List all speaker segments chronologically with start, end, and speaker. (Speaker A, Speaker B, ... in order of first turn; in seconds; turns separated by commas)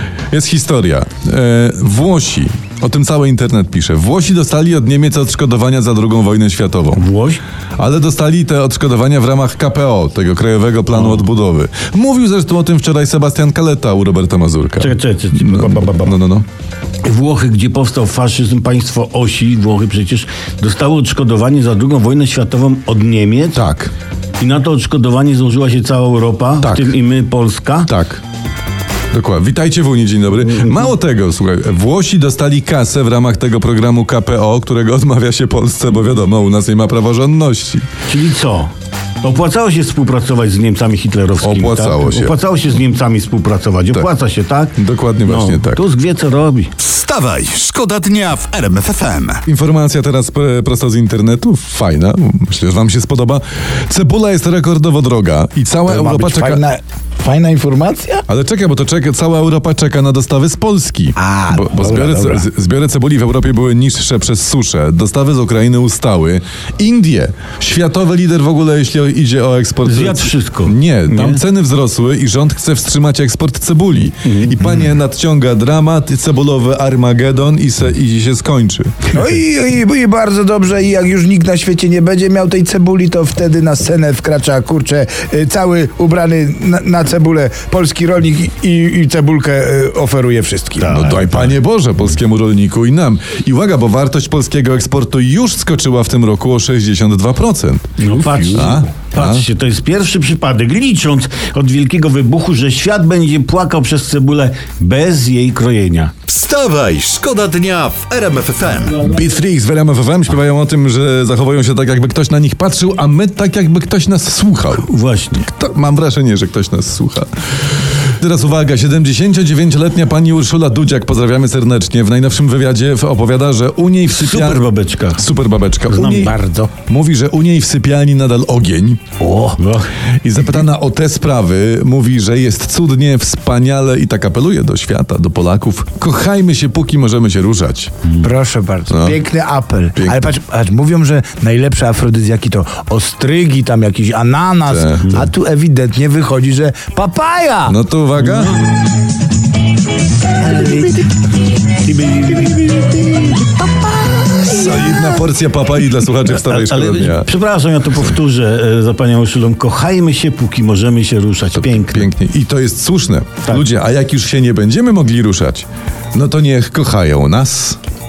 Speaker A: 0.3-7.0, Speaker B: 6.9-7.4, Speaker A: 7.8-16.4, Speaker B: 10.9-11.2, Speaker B: 14.8-16.2, Speaker B: 17.0-23.6, Speaker A: 23.5-23.9, Speaker B: 24.4-27.9, Speaker A: 26.6-26.9, Speaker A: 27.9-28.2, Speaker A: 29.1-37.8, Speaker B: 38.1-38.7, Speaker B: 39.2-46.7, Speaker A: 41.4-42.3, Speaker A: 44.8-45.8, Speaker C: 46.8-49.4, Speaker A: 49.5-56.6, Speaker D: 55.9-58.2, Speaker A: 58.3-79.1, Speaker D: 61.1-62.4, Speaker B: 69.8-71.4, Speaker B: 74.2-74.6, Speaker D: 79.1-91.5, Speaker B: 90.8-91.2, Speaker A: 90.9-99.4, Speaker B: 98.0-106.1, Speaker C: 106.2-109.0, Speaker A: 109.0-124.6, Speaker B: 114.7-115.5, Speaker B: 124.1-125.2, Speaker A: 125.2-126.3, Speaker B: 125.9-126.3, Speaker D: 126.1-126.7, Speaker A: 126.9-129.0, Speaker D: 129.2-129.6, Speaker B: 129.6-129.9, Speaker A: 130.2-137.9, Speaker D: 138.2-147.8, Speaker A: 138.9-139.2, Speaker A: 144.7-145.2, Speaker A: 147.7-148.6, Speaker D: 150.4-151.1, Speaker B: 151.8-153.7, Speaker A: 154.4-157.3, Speaker B: 156.2-162.1, Speaker A: 161.6-167.8